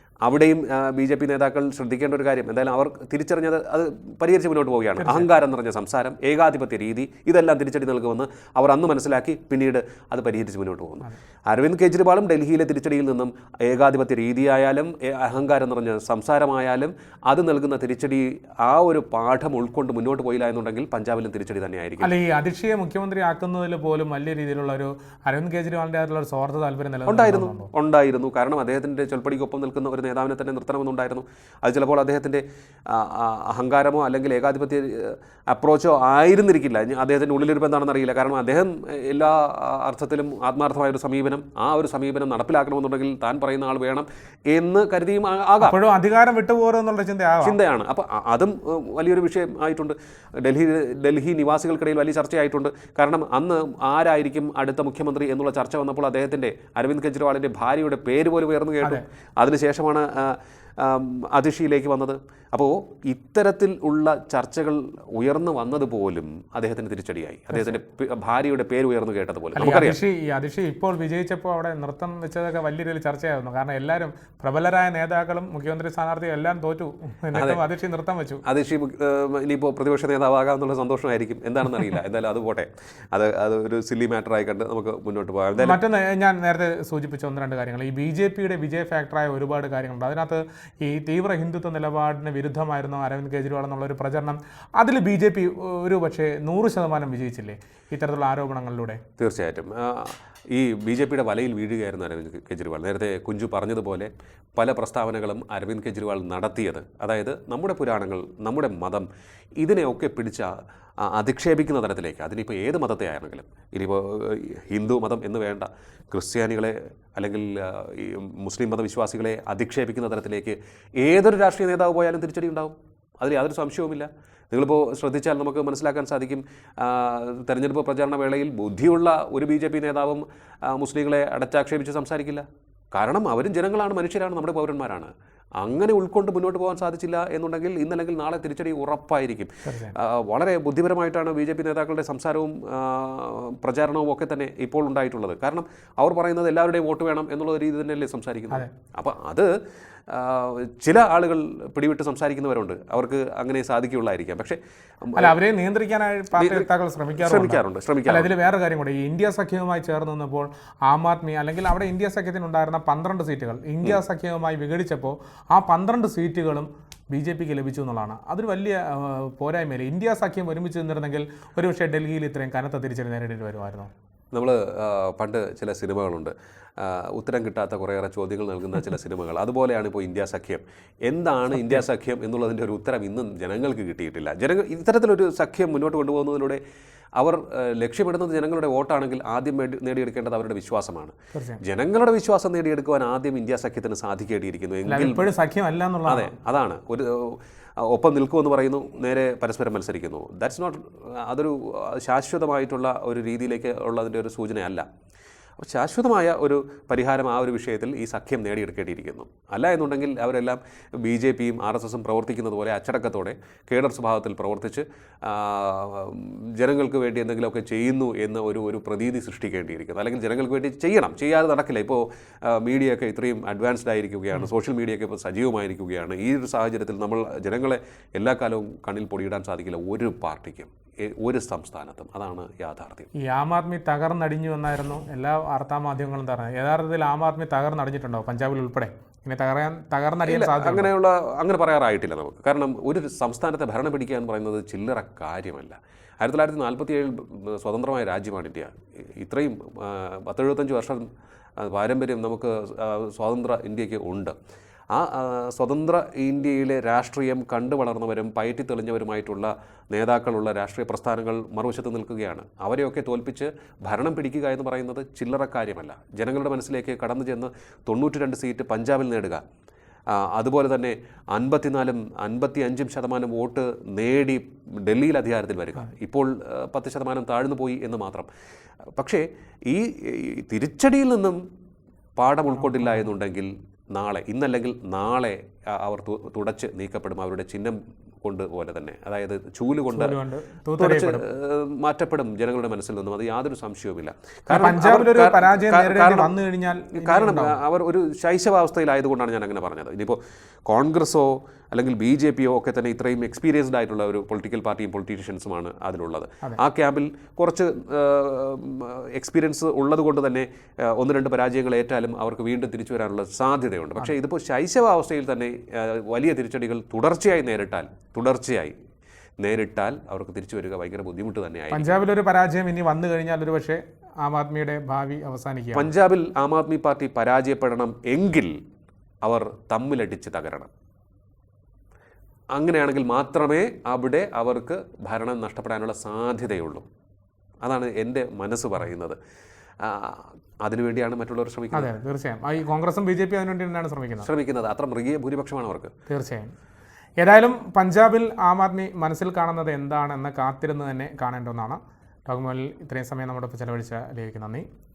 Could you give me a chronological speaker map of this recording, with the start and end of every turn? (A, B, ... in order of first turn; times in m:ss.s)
0:00.2-0:22.1 A
0:05.0-0:05.3 B
0:22.0-0:27.7 B
0:27.1-0:45.8 A
0:45.6-0:47.6 B
0:47.4-1:10.0 A
1:09.6-1:18.4 B
1:17.3-1:17.6 A
1:18.4-1:25.8 A
1:25.6-1:39.0 B
1:39.2-1:49.0 A
1:49.6-2:29.5 A
2:19.6-2:19.9 B
2:30.1-2:35.3 A
2:35.2-2:53.9 B
2:36.4-2:38.3 A
2:54.3-3:06.6 A
3:01.6-3:01.8 B
3:07.2-3:15.3 A
3:11.3-3:11.6 B
3:14.9-3:16.3 B
3:16.1-3:24.8 A
3:25.6-3:53.1 A
3:53.1-4:00.9 B
4:00.2-4:11.1 A
4:11.6-4:14.3 A
4:14.9-4:29.4 A
4:30.1-4:38.3 A
4:39.0-4:41.4 A
4:42.2-4:50.2 A
4:49.9-4:51.2 B
4:50.8-4:56.3 A
4:54.5-4:57.6 B
4:56.9-5:18.7 A
5:19.4-5:21.9 A
5:21.7-5:25.9 B
5:25.7-5:28.6 A
5:29.2-5:30.7 A
5:32.5-5:36.8 A
5:37.6-5:39.2 A
5:39.8-5:41.9 A
5:41.7-5:44.3 B
5:44.2-5:45.9 A
5:46.1-5:46.5 B
5:47.2-5:54.6 B